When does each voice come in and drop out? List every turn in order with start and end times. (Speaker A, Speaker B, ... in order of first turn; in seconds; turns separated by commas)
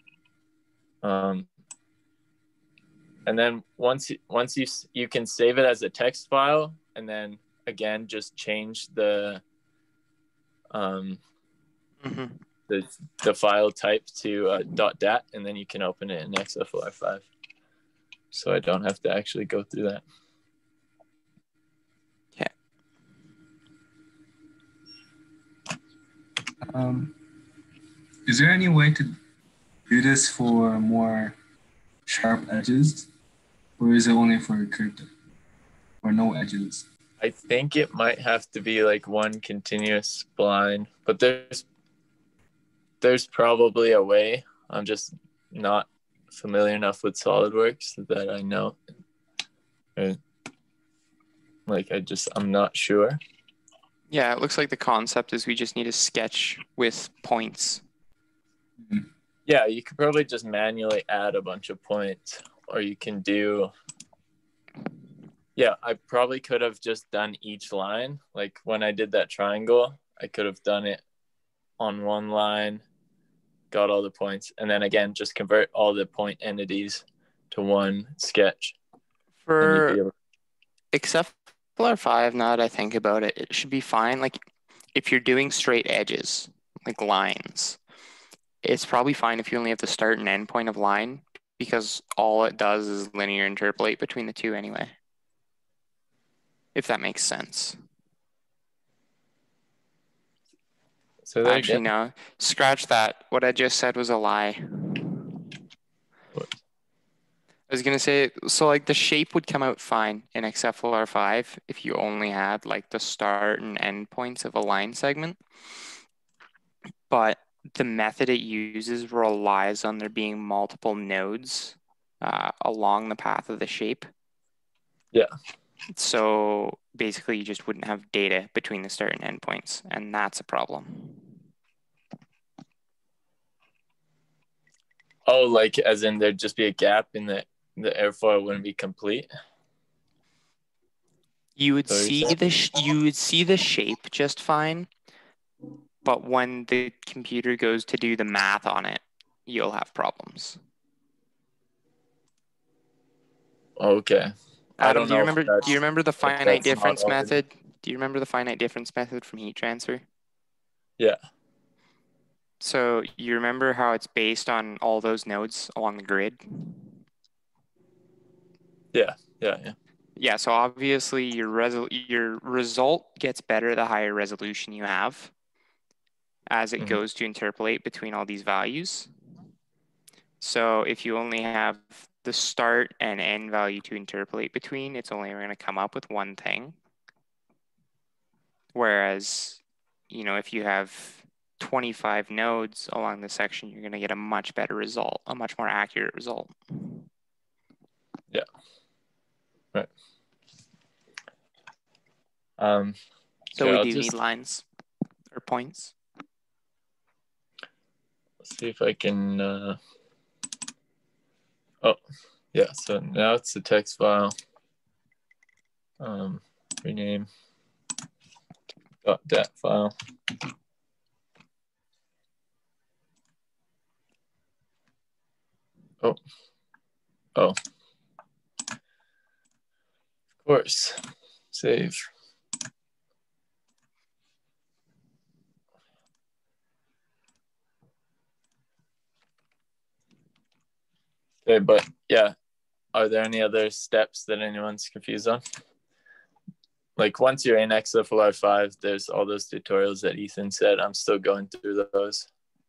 Speaker A: 1.0-1.5, Speaker A: 3.2-9.4, Speaker A: 10.7-11.2, Speaker B: 12.0-12.4, Speaker A: 12.7-17.3, Speaker A: 18.3-20.0, Speaker C: 26.6-27.1, Speaker C: 28.2-29.2, Speaker C: 29.9-31.4, Speaker C: 32.1-33.1, Speaker C: 33.8-35.1, Speaker C: 36.0-36.9, Speaker A: 37.2-41.6, Speaker A: 43.0-48.8, Speaker A: 51.7-53.2, Speaker B: 54.1-57.8, Speaker A: 59.5-63.7, Speaker A: 65.5-71.0, Speaker A: 71.8-72.8, Speaker A: 73.7-78.8, Speaker B: 79.4-80.0, Speaker A: 79.6-80.1, Speaker B: 80.9-84.4, Speaker B: 84.9-87.8, Speaker B: 88.6-94.9, Speaker B: 96.7-97.8, Speaker A: 101.2-101.9, Speaker B: 101.4-105.3, Speaker B: 107.7-115.4, Speaker B: 117.1-124.1, Speaker B: 125.9-131.4, Speaker A: 135.3-139.3, Speaker B: 141.6-144.9, Speaker A: 141.9-142.3, Speaker B: 146.0-150.6, Speaker A: 153.8-155.7, Speaker B: 154.8-160.0, Speaker A: 156.2-157.3, Speaker B: 162.6-166.9, Speaker A: 168.9-169.7, Speaker B: 170.2-175.3, Speaker B: 176.5-179.1, Speaker B: 180.4-186.8, Speaker B: 188.7-197.0, Speaker A: 202.6-203.0, Speaker B: 203.5-204.6, Speaker A: 203.6-204.2, Speaker B: 205.3-205.9, Speaker A: 208.4-209.8, Speaker A: 212.5-214.3, Speaker A: 216.0-217.3, Speaker A: 219.0-219.9, Speaker A: 230.4-231.0, Speaker A: 231.5-232.0, Speaker A: 241.4-242.3, Speaker A: 242.9-245.4, Speaker A: 247.0-252.3